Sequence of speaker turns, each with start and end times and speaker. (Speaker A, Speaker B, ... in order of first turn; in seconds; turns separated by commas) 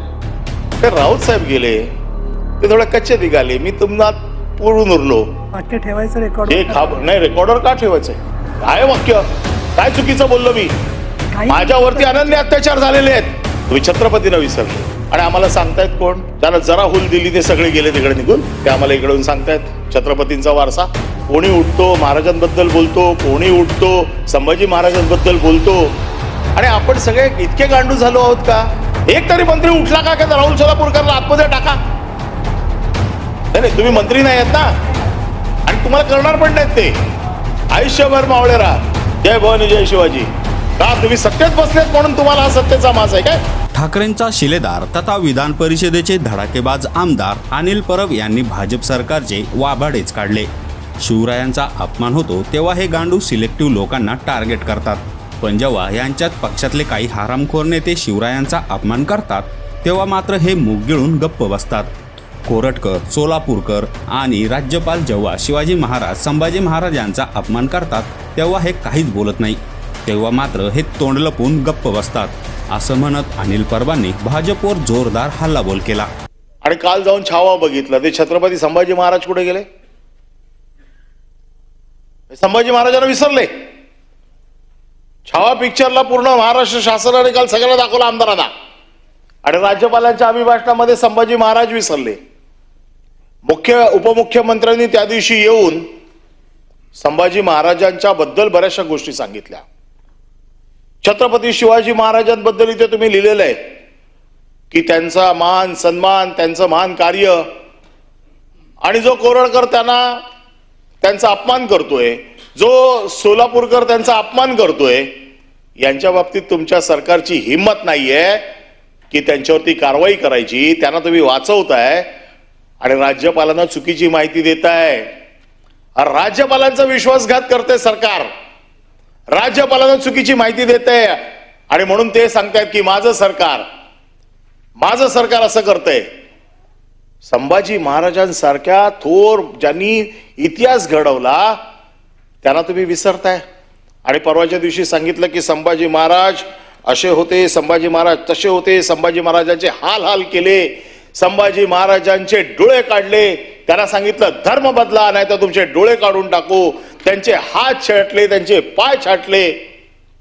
Speaker A: 0.8-1.9, Speaker A: 2.6-5.2, Speaker B: 5.5-6.9, Speaker A: 6.5-9.2, Speaker A: 9.8-10.7, Speaker B: 11.3-12.3, Speaker A: 11.5-25.9, Speaker A: 26.6-31.8, Speaker A: 33.5-34.7, Speaker A: 35.7-37.0, Speaker A: 37.7-40.3, Speaker A: 40.8-43.4, Speaker C: 43.7-50.5, Speaker C: 51.0-61.9, Speaker C: 62.5-76.1, Speaker A: 76.6-79.6, Speaker A: 82.3-83.5, Speaker A: 85.3-88.5, Speaker A: 89.4-92.2, Speaker A: 93.5-95.8, Speaker A: 97.0-99.6, Speaker A: 101.0-103.5, Speaker A: 104.7-107.4, Speaker A: 108.8-110.0, Speaker A: 111.0-115.1, Speaker A: 115.8-118.4, Speaker A: 119.1-122.0, Speaker A: 122.8-125.1, Speaker A: 126.0-128.3, Speaker A: 129.3-133.6, Speaker A: 134.8-136.0, Speaker A: 137.2-141.6, Speaker A: 142.4-143.4, Speaker A: 144.1-159.5